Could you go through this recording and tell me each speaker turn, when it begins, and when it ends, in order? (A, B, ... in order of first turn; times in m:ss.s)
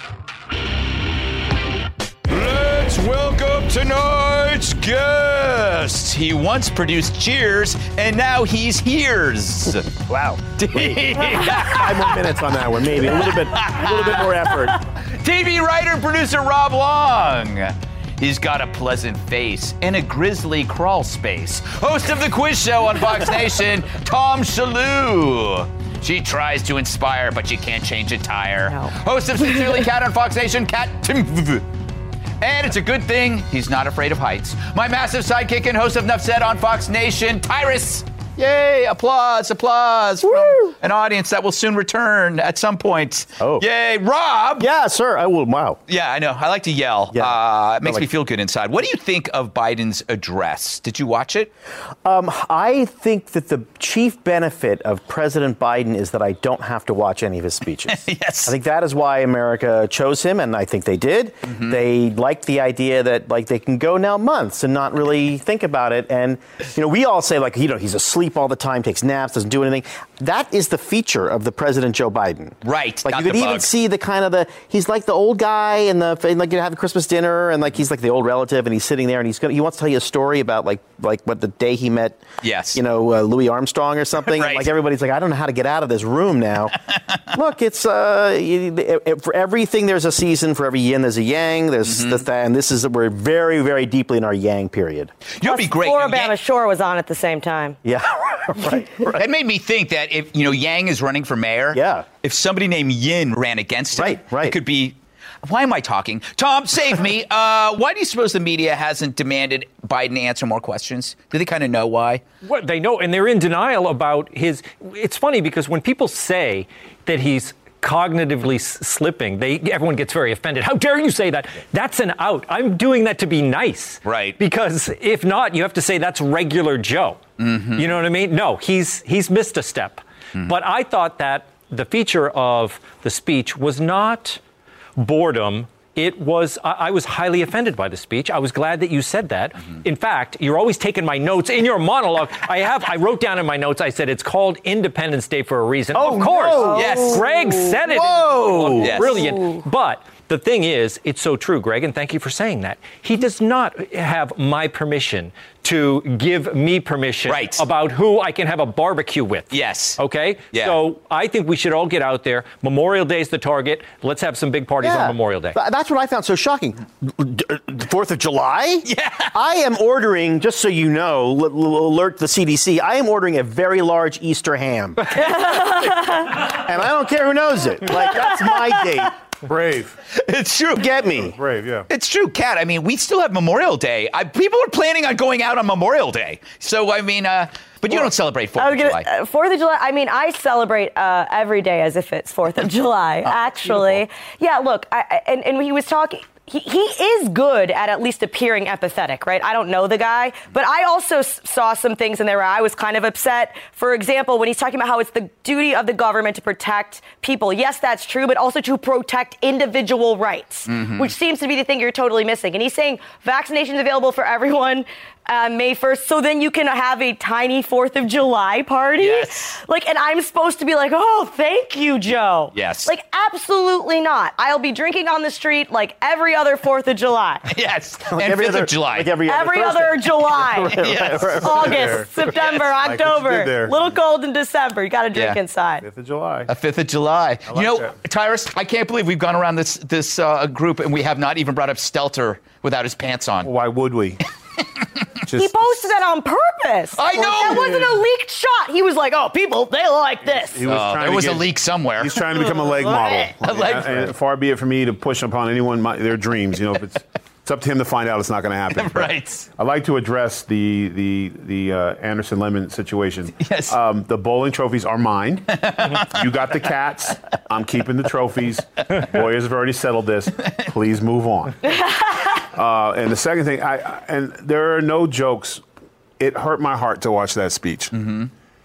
0:02.3-0:09.9 A
0:09.8-0:14.8 B
0:10.6-0:12.3 A
0:12.9-0:31.6 A
0:32.4-0:44.7 A
0:40.2-0:40.7 B
0:43.4-0:43.6 B
0:44.6-0:45.8 B
0:45.9-0:51.5 A
0:47.1-0:48.1 B
0:52.0-1:22.2 B
0:57.9-0:58.5 A
1:01.5-1:01.8 A
1:12.6-1:13.7 A
1:22.4-1:22.8 A
1:22.7-1:26.8 B
1:24.2-1:24.7 A
1:27.3-1:35.1 B
1:31.8-1:32.2 A
1:35.4-1:36.3 A
1:35.4-1:37.8 C
1:37.8-1:39.2 B
1:39.2-1:52.2 A
1:41.7-1:42.0 B
1:43.9-1:44.6 B
1:52.4-2:14.4 D
2:04.0-2:04.4 A
2:07.4-2:07.8 A
2:15.0-2:45.6 D
2:25.9-2:27.0 B
2:26.5-2:27.4 C
2:26.8-2:27.2 A
2:27.8-2:29.0 B
2:28.8-2:29.2 A
2:29.0-2:29.4 C
2:37.2-2:37.6 A
2:39.5-2:40.0 A
2:40.5-2:40.8 A
2:44.8-2:55.1 B
2:48.8-2:49.3 A
2:55.2-2:56.5 C
2:56.4-2:59.1 B
2:59.4-3:00.0 E
3:00.1-3:00.9 A
3:00.8-3:01.4 B
3:01.3-3:01.9 E
3:01.9-3:09.1 A
3:08.6-3:47.5 C
3:30.7-3:31.1 A
3:39.0-3:39.5 A
3:42.5-3:42.9 A
3:47.5-3:49.1 A
3:48.1-3:51.8 B
3:49.2-3:55.8 C
3:50.7-3:52.7 A
3:51.4-3:52.2 E
3:52.8-3:53.9 E
3:55.1-3:55.4 A
3:55.8-3:56.5 E
3:56.5-4:03.5 A
3:57.5-3:57.9 E
4:03.4-4:04.2 E
4:05.2-4:06.0 E
4:05.3-4:10.7 C
4:07.0-4:08.0 A
4:10.2-4:31.7 E
4:10.7-4:12.2 A
4:12.2-4:13.3 C
4:13.4-4:14.1 A
4:18.7-4:19.5 A
4:23.4-4:23.8 A
4:25.5-4:26.0 A
4:32.4-4:35.6 E
4:36.2-4:37.9 E